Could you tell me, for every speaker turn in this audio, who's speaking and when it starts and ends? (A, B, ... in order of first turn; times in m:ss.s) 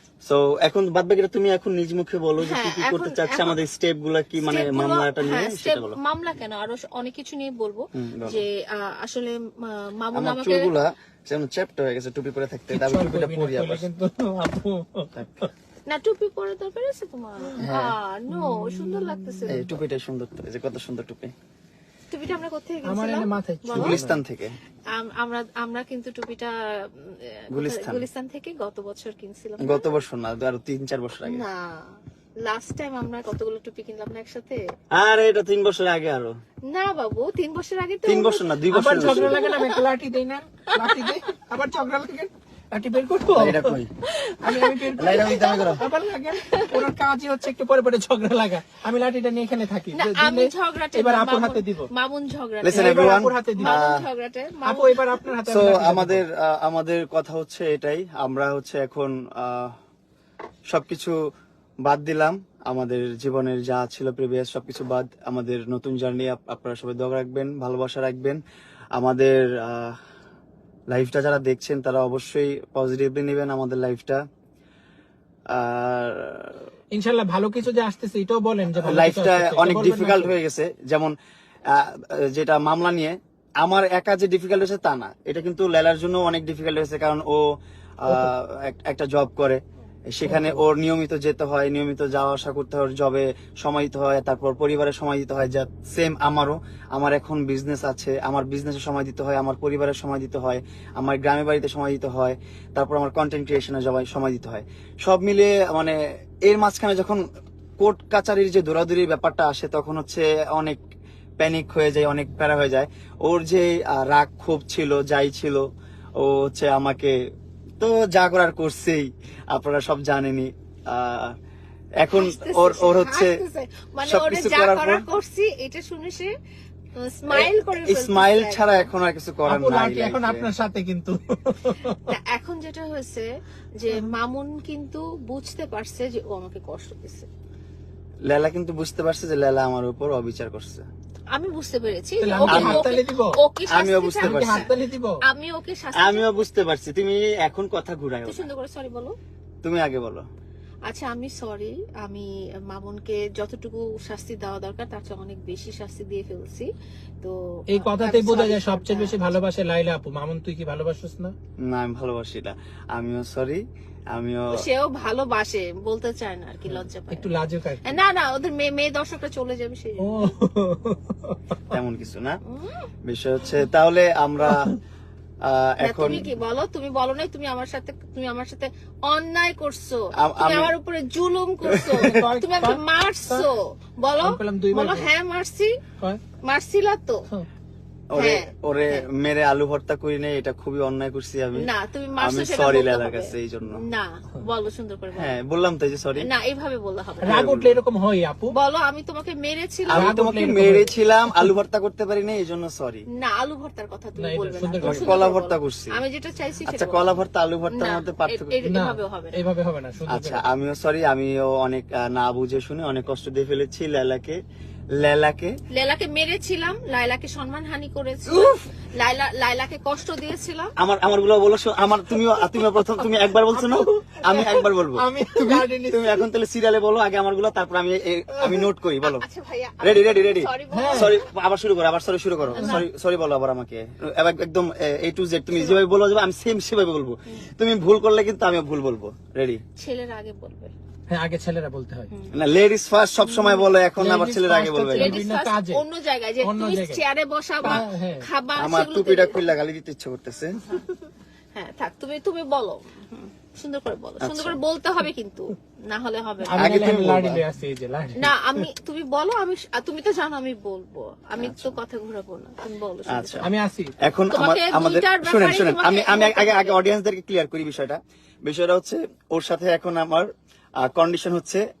0:00.2-0:06.0 A
0:02.4-0:03.6 B
0:04.4-0:10.7 B
0:07.9-0:08.4 A
0:10.1-0:13.8 A
0:12.7-0:15.5 C
0:15.9-0:19.7 B
0:17.6-0:17.9 A
0:18.3-0:19.6 C
0:19.5-0:21.3 A
0:22.1-0:24.0 B
0:22.8-0:24.2 C
0:23.7-0:24.5 A
0:24.9-0:30.0 B
0:27.5-0:28.0 A
0:29.6-0:31.4 A
0:31.2-0:34.6 B
0:34.9-0:36.3 A
0:36.7-0:38.4 B
0:38.0-0:39.4 A
0:38.7-0:43.8 C
0:39.0-0:39.8 B
0:40.8-0:41.1 B
0:43.3-0:43.9 A
0:44.1-0:45.8 B
0:44.4-0:51.9 C
0:45.0-0:45.8 A
0:46.4-0:46.8 B
0:49.9-0:55.2 B
0:52.6-0:54.0 A
0:52.7-0:53.8 C
0:54.7-0:56.2 C
0:55.5-0:59.7 A
1:00.7-1:01.1 A
1:01.8-1:08.4 A
1:09.0-1:10.0 A
1:10.9-1:14.2 A
1:15.5-1:16.6 A
1:16.9-1:20.3 C
1:18.8-1:21.1 A
1:21.7-1:27.4 A
1:28.0-1:47.2 A
1:30.2-1:30.6 C
1:47.8-1:50.8 A
1:51.4-1:55.6 A
1:56.2-1:57.2 A
1:57.8-2:01.3 A
2:02.0-2:03.4 A
2:02.1-2:06.3 B
2:04.0-2:05.0 A
2:07.0-2:08.9 B
2:07.3-2:10.5 A
2:09.5-2:12.1 C
2:12.0-2:13.3 B
2:13.8-2:17.3 B
2:18.3-2:20.8 A
2:21.3-2:24.7 B
2:22.2-2:23.4 C
2:22.5-2:22.9 A
2:23.7-2:24.7 A
2:24.2-2:25.2 C
2:25.2-2:26.3 B
2:26.0-2:28.5 A
2:28.2-2:29.1 B
2:29.6-2:30.2 A
2:30.9-2:36.7 B
2:37.2-2:39.4 B
2:37.7-2:41.3 C
2:41.6-2:44.5 A
2:44.5-2:50.3 B
2:47.1-2:47.9 C
2:50.0-2:51.7 C
2:51.7-2:52.4 A
2:52.4-2:52.9 B
2:53.0-2:54.7 A
2:54.4-2:54.7 C
2:55.4-2:56.3 A
2:55.8-3:05.7 B
3:00.2-3:00.7 A
3:02.0-3:03.4 C
3:04.2-3:05.1 C
3:06.4-3:07.2 B
3:08.1-3:11.7 A
3:08.2-3:09.0 B
3:11.6-3:15.3 B
3:12.2-3:13.8 A
3:15.1-3:16.2 A
3:16.2-3:17.4 B
3:17.2-3:18.5 C
3:17.3-3:17.8 A
3:18.5-3:20.1 B
3:19.9-3:23.0 A
3:19.9-3:21.5 C
3:23.2-3:27.0 B
3:24.2-3:25.1 C
3:24.8-3:26.0 A
3:26.7-3:28.6 A
3:27.7-3:29.4 B
3:28.6-3:30.4 C
3:30.1-3:34.4 A
3:35.0-3:35.5 A
3:35.7-3:40.7 B
3:38.3-3:38.6 A
3:40.8-3:49.2 A
3:43.0-3:46.2 C
3:48.4-3:48.6 C
3:49.0-3:51.2 B
3:49.8-3:59.6 A
3:50.7-3:51.1 C
3:52.5-3:52.8 C
3:52.5-3:52.8 B
3:55.5-3:55.8 B
3:59.8-4:00.7 B
4:01.1-4:02.1 C
4:02.3-4:05.2 A
4:03.2-4:03.7 B
4:04.0-4:05.8 C
4:04.9-4:09.4 B
4:06.4-4:07.0 C
4:07.6-4:08.2 C
4:08.6-4:10.6 A
4:11.5-4:16.5 B
4:14.2-4:14.6 A
4:16.4-4:18.6 C
4:16.6-4:17.4 A
4:18.2-4:23.5 B
4:21.4-4:21.7 A
4:23.1-4:23.5 A
4:23.4-4:23.9 C
4:24.0-4:30.3 A
4:24.3-4:26.8 B
4:30.8-4:31.6 A